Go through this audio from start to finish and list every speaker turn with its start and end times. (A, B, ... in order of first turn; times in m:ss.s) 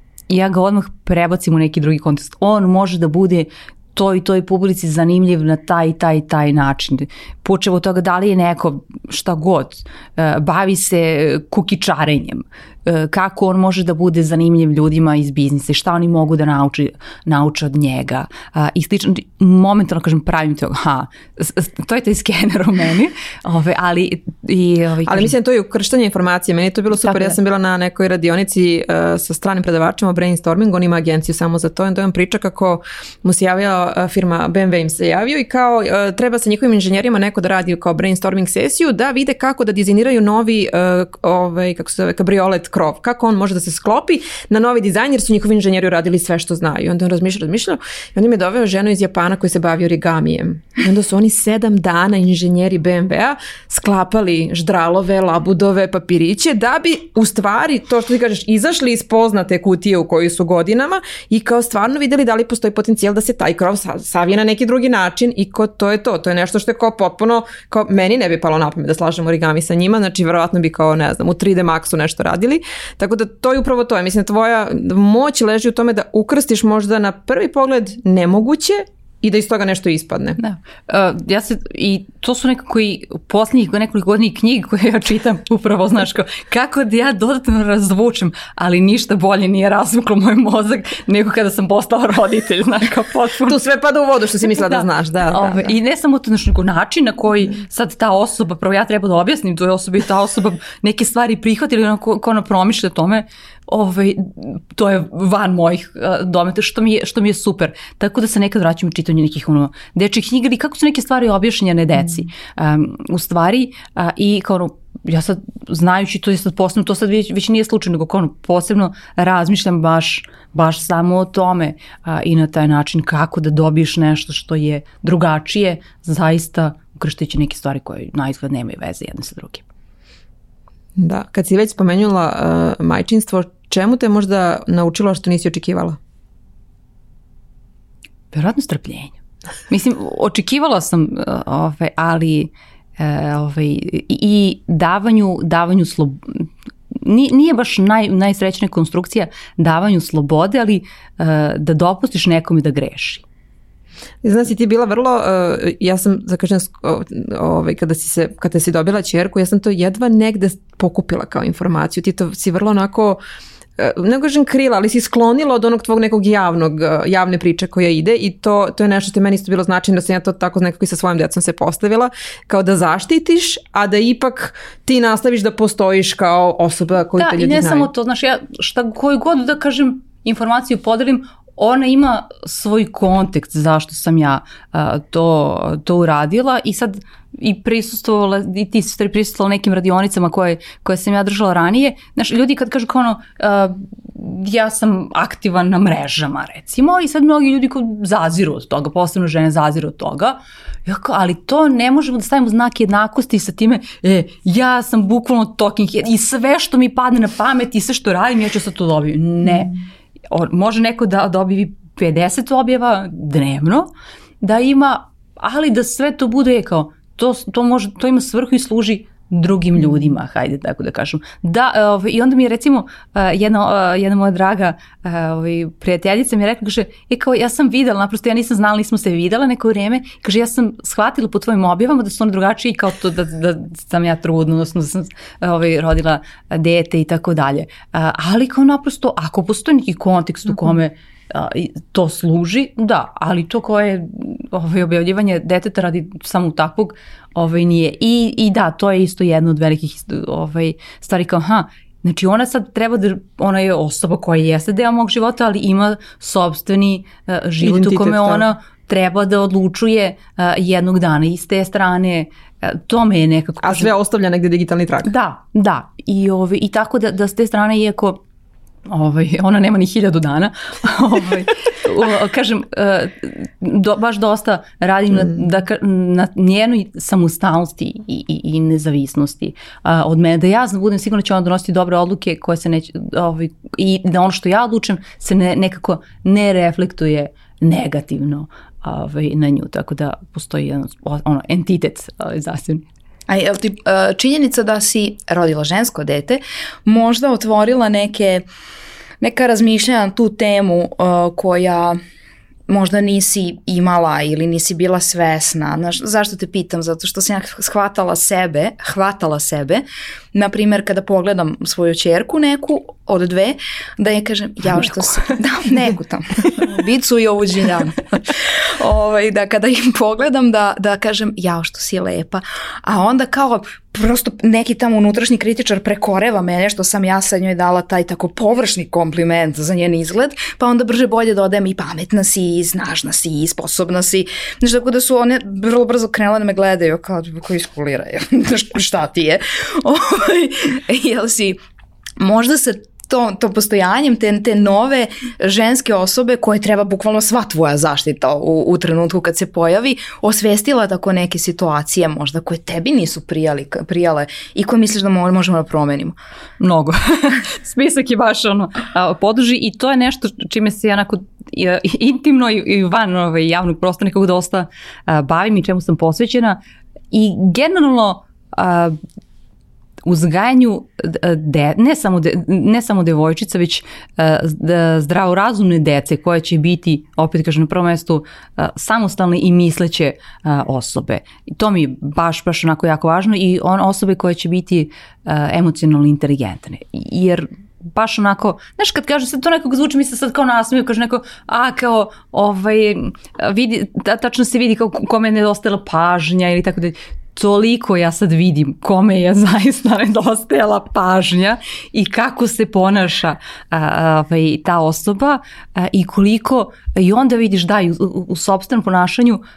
0:00.3-0:25.3 A
0:25.0-1:20.4 B
0:27.1-0:27.3 A
1:20.4-1:33.6 A
1:33.5-1:35.7 B
1:34.7-2:09.6 A
2:11.0-2:16.0 B
2:18.3-2:19.2 A
2:19.7-2:33.2 A
2:34.2-2:43.2 B
2:43.8-2:57.9 B
2:57.2-3:29.8 A
3:30.3-3:33.9 A
3:34.4-4:23.9 A
4:17.6-4:18.5 B
4:23.6-4:25.1 B
4:25.0-4:28.2 A
4:28.9-4:52.8 A
4:53.3-4:58.4 C
4:59.2-5:02.0 C
5:02.7-5:41.6 C
5:14.8-5:15.2 A
5:42.2-5:56.2 C
5:56.6-6:06.6 A
6:07.1-6:09.0 A
6:10.0-6:49.4 A